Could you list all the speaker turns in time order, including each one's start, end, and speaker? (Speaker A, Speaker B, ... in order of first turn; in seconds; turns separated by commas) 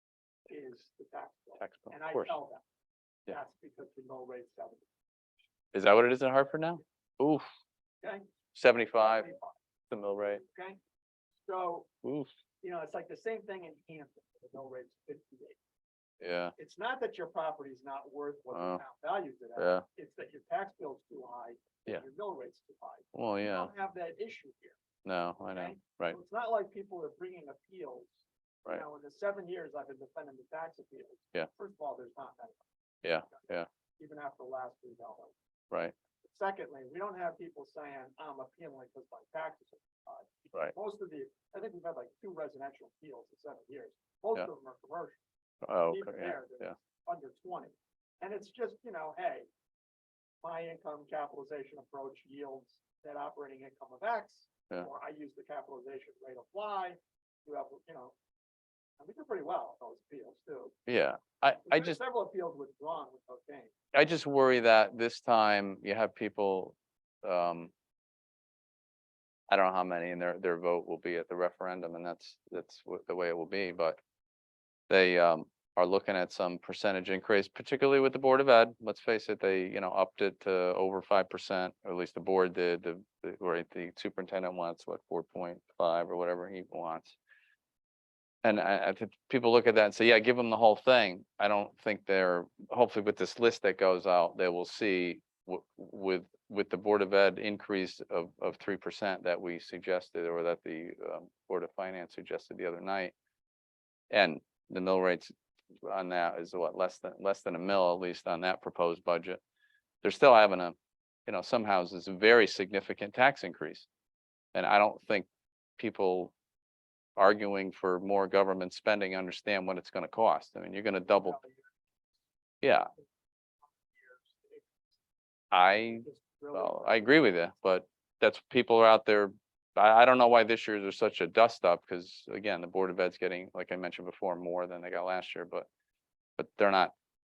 Speaker A: 0.5-2.6, Speaker B: 1.6-2.4, Speaker A: 3.3-4.9, Speaker B: 5.7-7.5, Speaker A: 8.0-8.3, Speaker B: 8.6-9.3, Speaker A: 8.9-9.6, Speaker B: 9.9-10.4, Speaker A: 10.2-10.8, Speaker A: 11.4-11.9, Speaker B: 12.0-12.3, Speaker A: 12.6-15.6, Speaker B: 16.2-16.5, Speaker A: 16.6-24.8, Speaker B: 18.5-18.8, Speaker B: 19.6-19.8, Speaker B: 23.1-23.7, Speaker B: 25.1-26.2, Speaker A: 25.5-32.6, Speaker B: 33.0-33.7, Speaker A: 33.3-35.4, Speaker A: 36.2-45.2, Speaker B: 45.6-46.7, Speaker A: 45.9-49.5, Speaker A: 50.4-58.1, Speaker A: 59.0-60.7, Speaker B: 60.9-62.0, Speaker A: 61.7-63.7, Speaker B: 63.9-67.7, Speaker B: 69.5-74.0, Speaker B: 74.9-87.2, Speaker B: 88.4-103.1, Speaker B: 104.1-105.3, Speaker B: 105.8-109.4, Speaker B: 110.0-110.8, Speaker B: 111.3-113.9, Speaker B: 114.5-115.3, Speaker B: 115.8-116.3, Speaker B: 117.2-121.4, Speaker A: 121.1-121.7, Speaker B: 122.6-122.9, Speaker A: 123.8-124.8, Speaker B: 125.5-135.7, Speaker A: 125.9-127.2, Speaker B: 136.4-136.9